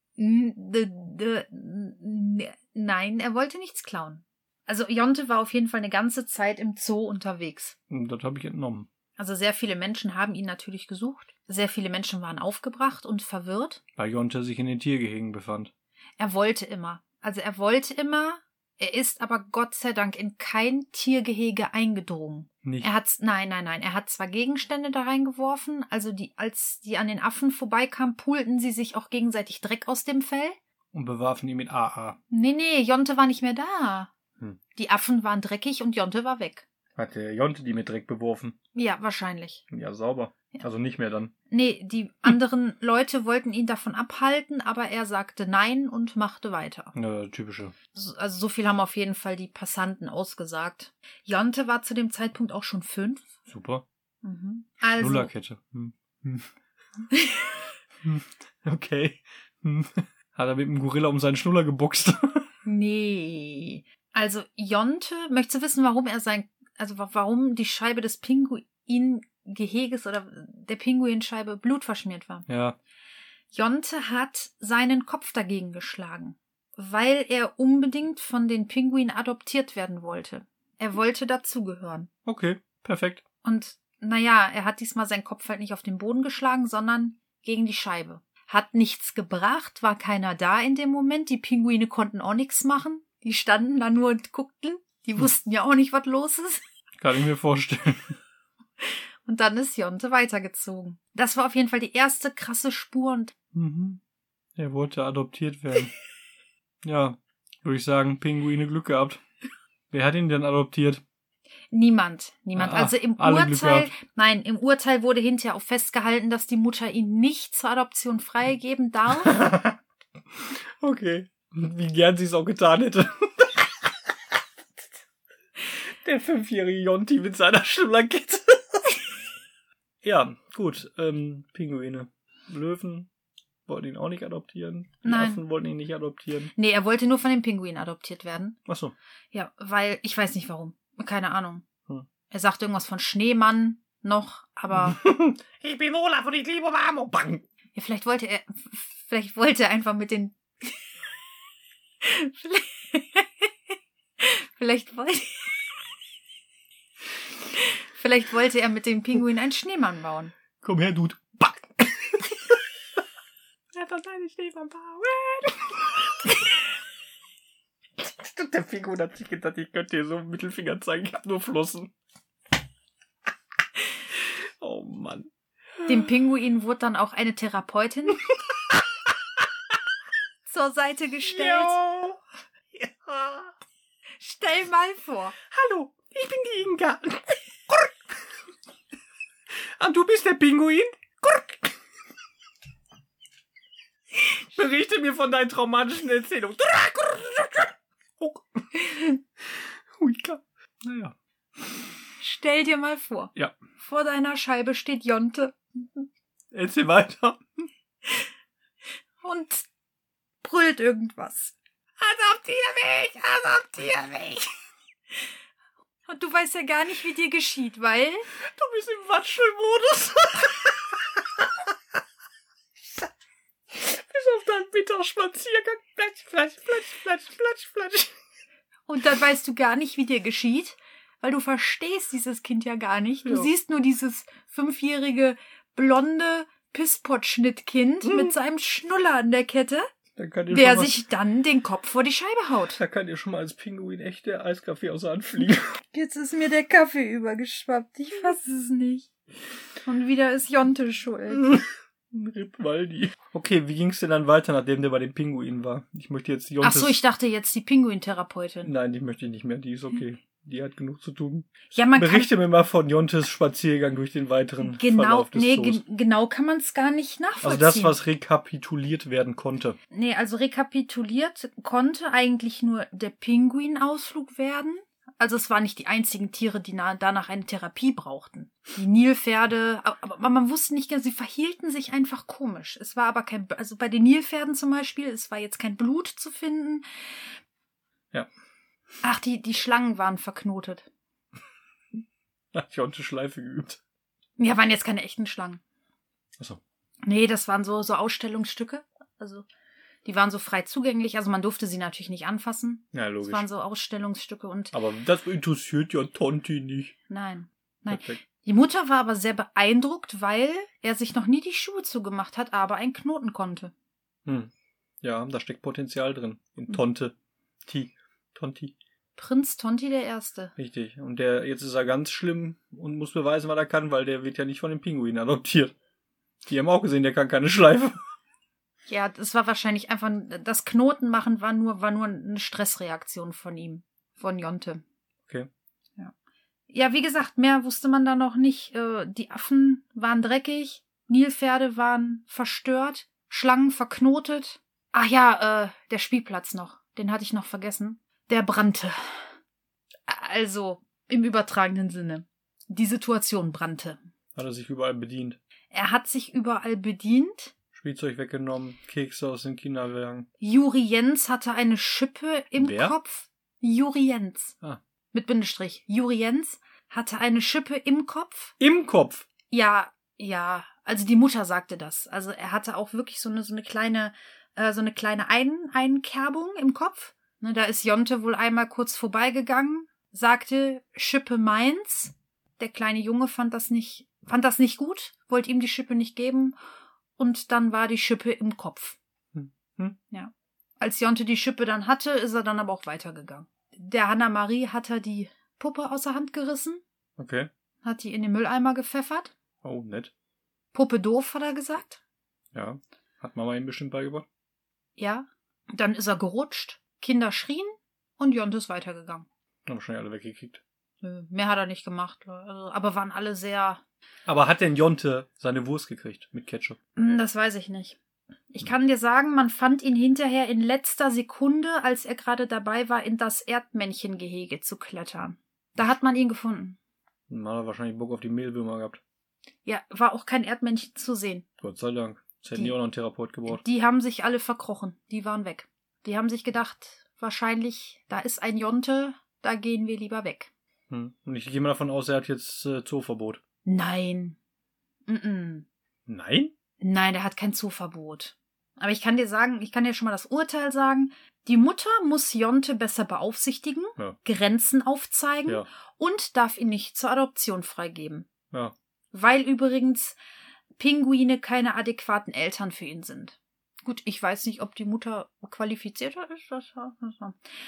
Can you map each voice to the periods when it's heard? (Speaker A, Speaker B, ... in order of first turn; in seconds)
Speaker A: 0.2-7.8, 9.2-13.8, 16.2-30.6, 32.3-34.1, 34.7-36.6, 38.7-39.6, 41.5-46.9, 47.9-53.2, 54.2-55.3, 57.1-57.5, 62.6-72.5, 73.5-82.1, 83.4-96.6, 98.8-103.3, 111.7-119.4, 135.0-135.4, 136.5-138.6, 139.3-141.7, 142.3-145.0, 147.7-150.8, 152.0-155.6, 157.6-160.3, 175.8-178.2, 180.4-181.8, 184.2-185.3, 198.8-199.2, 202.2-206.1, 209.2-209.7, 210.4-211.6, 216.1-218.3, 228.9-239.9, 240.5-242.8, 245.9-249.1, 249.8-251.5, 256.6-258.7, 261.7-262.3, 264.6-268.0, 269.9-287.3, 289.0-290.9, 294.4-295.6, 297.0-299.4, 300.0-304.7, 307.1-313.7, 319.1-320.5, 328.9-334.8, 336.7-349.3, 350.1-354.0, 355.7-357.5, 360.4-364.6, 365.1-368.5, 369.5-386.6, 387.2-389.0, 390.1-396.8, 397.8-399.3, 400.7-402.0, 405.0-409.3, 411.0-413.8, 416.9-418.0, 418.5-426.8, 429.6-431.4, 433.5-440.5, 443.6-444.4, 445.1-445.7, 446.8-458.3, 459.1-460.2, 460.8-467.4
Speaker B: 7.9-8.9, 14.0-15.7, 22.6-22.9, 30.9-32.2, 37.0-38.5, 39.7-41.3, 46.9-47.7, 53.5-53.8, 54.9-56.5, 58.0-62.5, 72.5-72.8, 82.2-83.2, 97.0-98.2, 103.5-104.0, 104.6-105.9, 106.8-109.2, 109.9-111.0, 112.5-113.9, 119.2-119.8, 120.8-123.9, 126.0-128.9, 130.0-133.1, 133.7-136.5, 138.7-138.9, 144.7-147.4, 160.6-162.6, 163.7-166.5, 168.0-171.9, 174.1-175.9, 178.2-178.8, 181.2-182.2, 182.7-183.5, 185.5-187.9, 189.8-191.7, 194.2-198.6, 200.0-201.1, 206.5-207.4, 212.0-214.4, 218.4-221.5, 223.7-228.1, 233.2-233.5, 238.0-238.3, 240.2-240.9, 242.7-245.7, 251.4-257.0, 258.6-265.8, 267.4-269.8, 292.5-293.8, 302.9-303.4, 304.7-306.9, 307.9-308.2, 314.2-314.5, 315.0-318.7, 320.6-325.7, 326.4-328.0, 354.3-355.4, 357.7-360.3, 362.6-362.9, 368.6-369.3, 389.3-390.0, 397.2-397.5, 399.6-400.1, 402.5-404.2, 409.6-410.6, 414.2-416.8, 427.3-429.0, 431.6-433.6, 440.9-443.4, 446.1-446.5